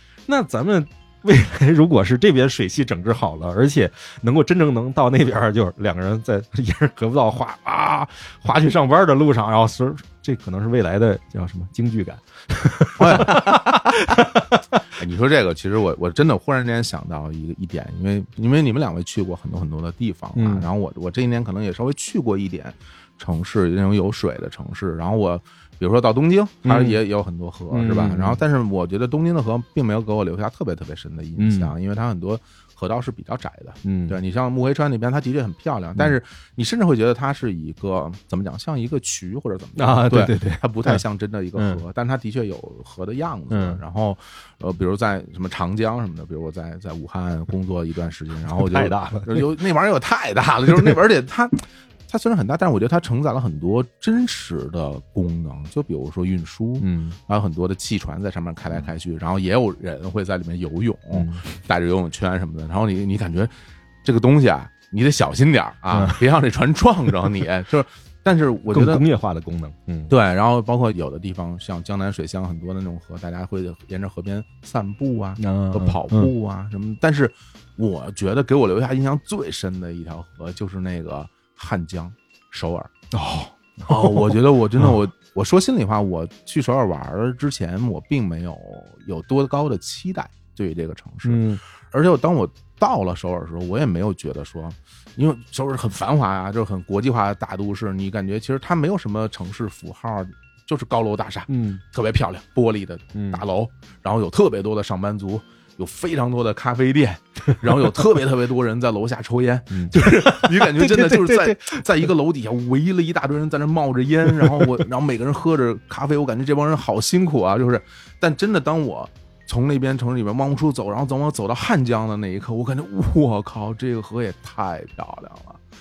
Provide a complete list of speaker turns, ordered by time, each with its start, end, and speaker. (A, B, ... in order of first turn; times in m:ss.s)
0:00.3-0:14.6 A
0:13.0-0:13.6 B
0:15.0-1:03.5 B
0:20.4-0:20.7 A
0:26.6-0:27.0 A
0:27.7-0:28.4 A
0:31.4-0:31.7 A
0:33.8-0:34.2 A
0:39.8-0:41.0 A
0:41.6-0:41.8 A
0:43.5-0:43.8 A
0:48.5-0:49.5 A
0:50.7-0:51.0 A
0:56.8-0:57.2 A
1:01.1-1:01.5 A
1:04.0-1:09.0 B
1:05.9-1:06.2 A
1:08.7-1:10.2 A
1:10.1-1:22.9 B
1:15.4-1:16.3 A
1:23.1-1:25.0 A
1:23.9-2:05.6 B
1:31.2-1:31.6 A
1:41.5-1:41.8 A
1:43.2-1:43.4 A
1:49.7-1:51.8 A
1:54.3-1:54.7 A